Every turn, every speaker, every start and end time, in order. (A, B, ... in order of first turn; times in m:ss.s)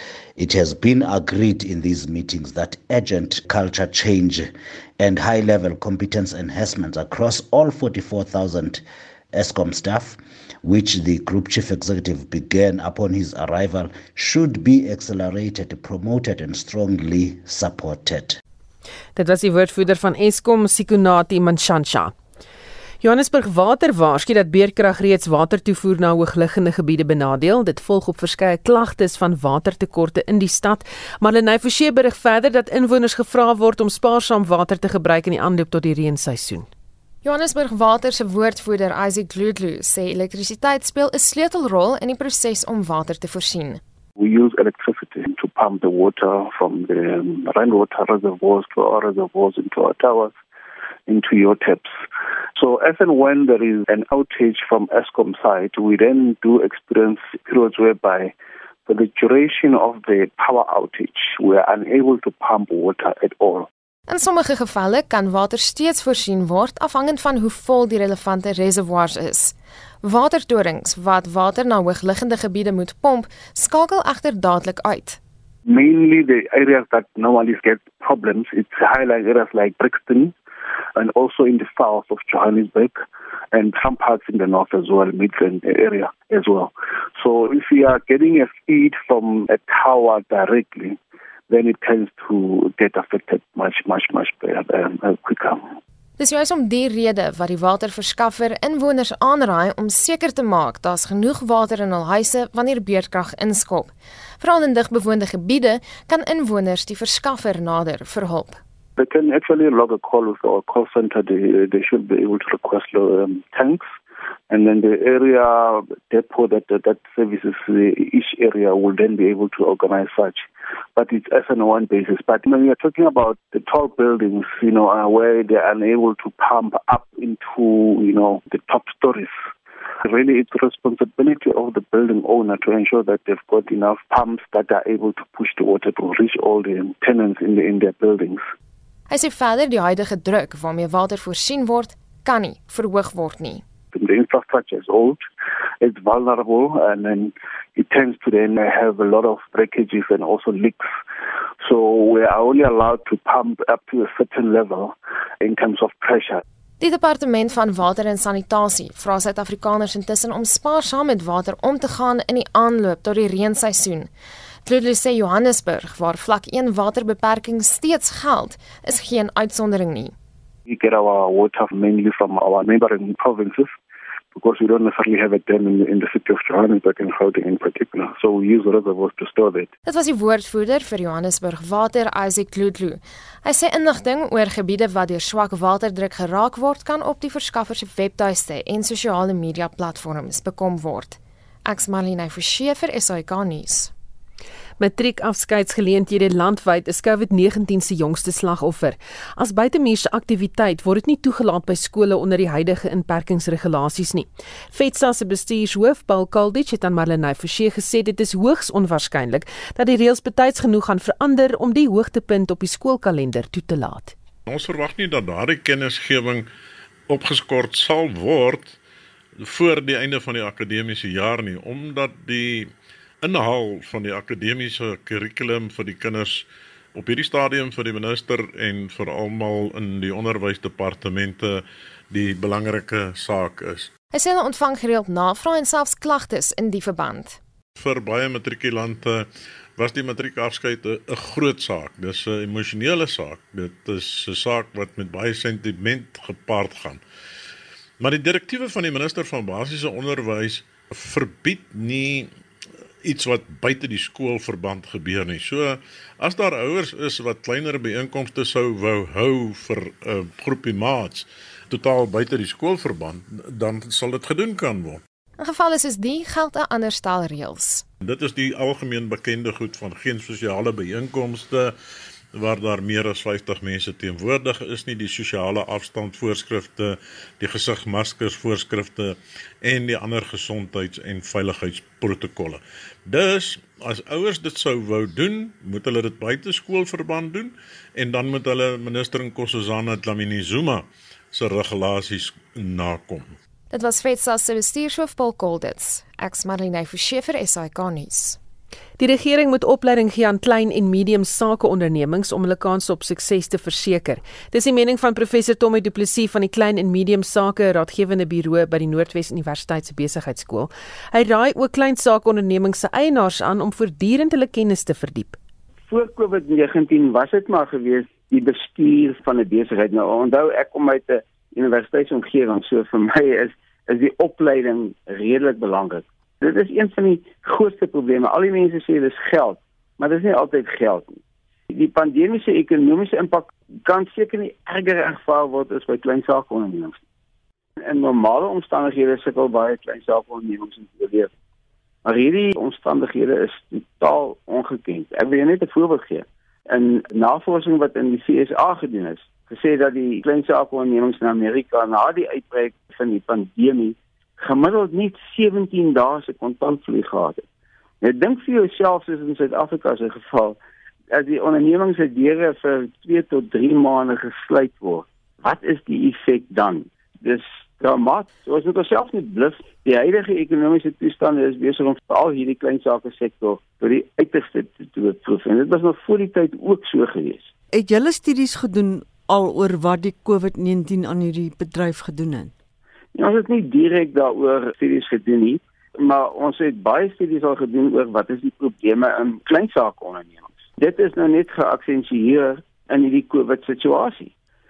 0:00.4-0:18.4 A
0:19.2-0:22.2 B
0:23.0-0:36.7 B
0:37.2-0:43.8 C
0:44.2-0:50.4 D
0:51.1-0:52.0 D
0:52.6-0:58.3 D
0:58.9-1:03.7 D
1:04.1-1:15.2 C
1:15.7-1:20.4 D
1:21.0-1:35.7 D
1:36.2-1:48.6 C
1:49.0-1:54.0 D
1:54.5-2:09.5 D
2:10.0-2:18.4 D
2:19.1-2:23.6 C
2:23.9-2:25.3 D
2:25.8-2:31.0 D
2:31.6-2:36.4 D
2:36.8-2:44.1 C
2:44.6-2:50.1 C
2:50.7-2:53.8 D
2:54.3-2:59.7 D
2:59.9-3:13.9 C
3:14.8-3:34.2 B
3:34.5-3:36.5 E
3:37.1-3:38.8 E
3:39.4-3:53.9 E
3:54.1-3:57.4 C
3:57.8-4:07.0 E
4:08.0-4:12.3 E
4:13.0-4:25.0 E
4:25.4-4:27.8 C
4:28.0-4:31.7 E
4:32.4-4:53.4 E
4:53.7-4:58.4 C
4:59.0-5:15.4 B
5:15.9-5:31.2 F
5:31.7-5:37.0 F
5:37.8-5:41.3 F
5:42.0-5:57.4 F
5:58.0-6:00.6 F
6:01.1-6:17.5 F
6:17.7-6:22.5 G
6:23.2-6:34.3 F